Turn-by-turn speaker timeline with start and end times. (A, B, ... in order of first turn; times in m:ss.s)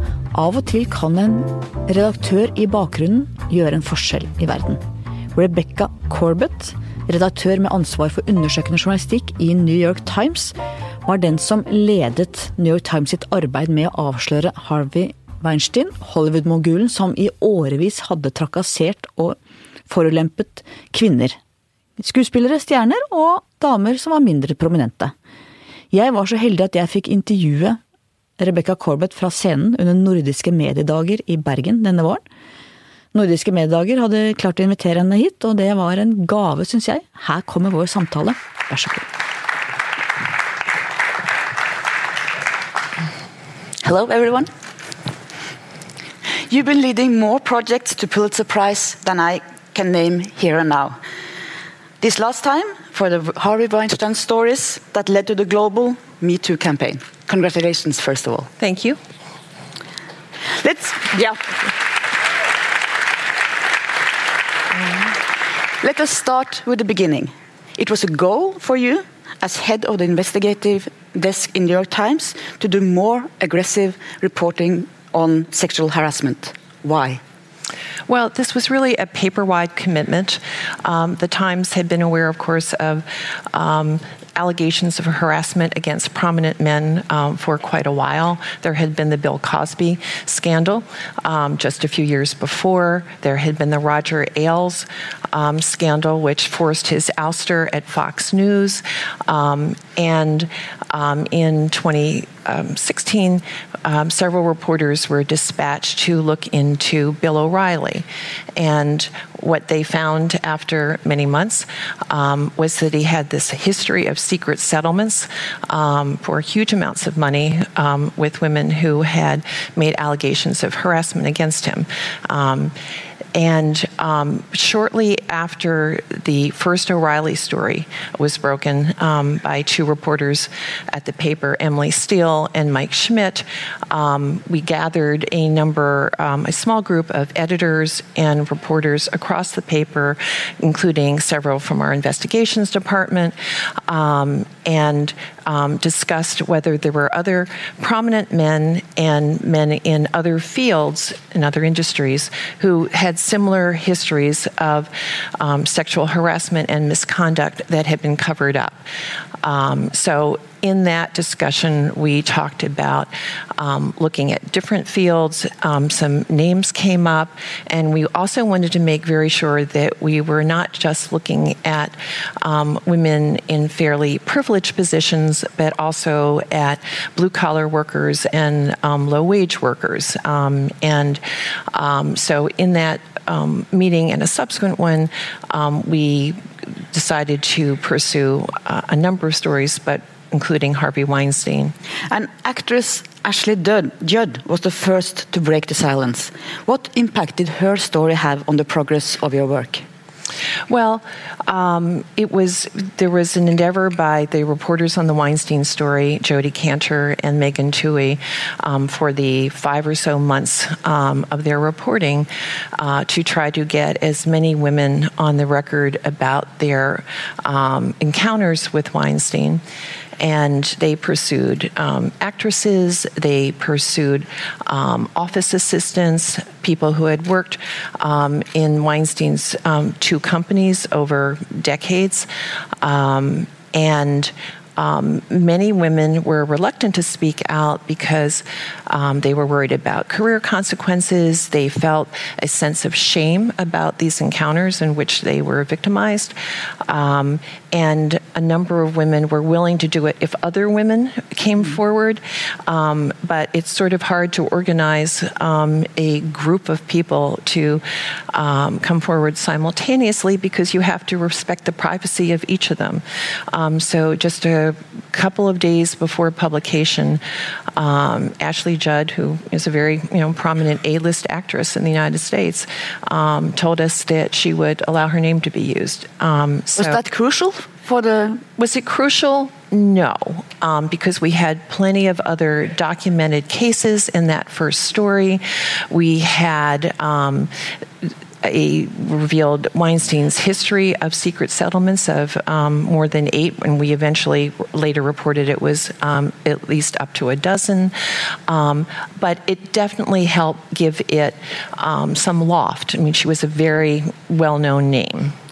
0:00.4-0:04.8 A
0:00.5-0:01.3 B
0:02.1-0:04.7 B
0:05.4-0:10.5 A
0:05.5-0:06.5 B
0:11.1-0:19.3 A
0:12.0-0:16.9 B
0:17.8-0:19.1 B
0:19.9-0:21.3 A
0:20.1-0:21.3 B
0:22.0-0:25.1 A
0:22.1-0:25.1 B
0:25.9-0:27.8 A
0:26.0-0:27.7 B
0:28.4-0:32.2 A
0:28.7-0:32.2 B
0:33.1-0:39.0 A
0:33.4-0:38.3 B
0:43.8-0:44.5 B
0:46.4-0:51.0 B
0:52.0-0:58.5 B
0:58.6-0:59.0 C
1:00.5-1:01.6 B
1:05.8-1:17.2 B
1:18.1-1:48.0 C
1:48.6-2:02.7 C
2:03.3-2:23.3 C
2:23.9-2:38.8 C
2:39.4-3:01.2 C
3:01.7-3:11.7 C
3:12.1-3:19.8 B
3:20.7-3:39.6 C
3:40.2-3:52.3 C
3:52.8-4:06.3 C
4:06.8-4:27.2 C
4:27.8-4:37.0 C
4:36.8-4:38.4 B
4:38.6-4:47.5 C
4:48.0-4:57.9 C
4:58.5-5:05.3 C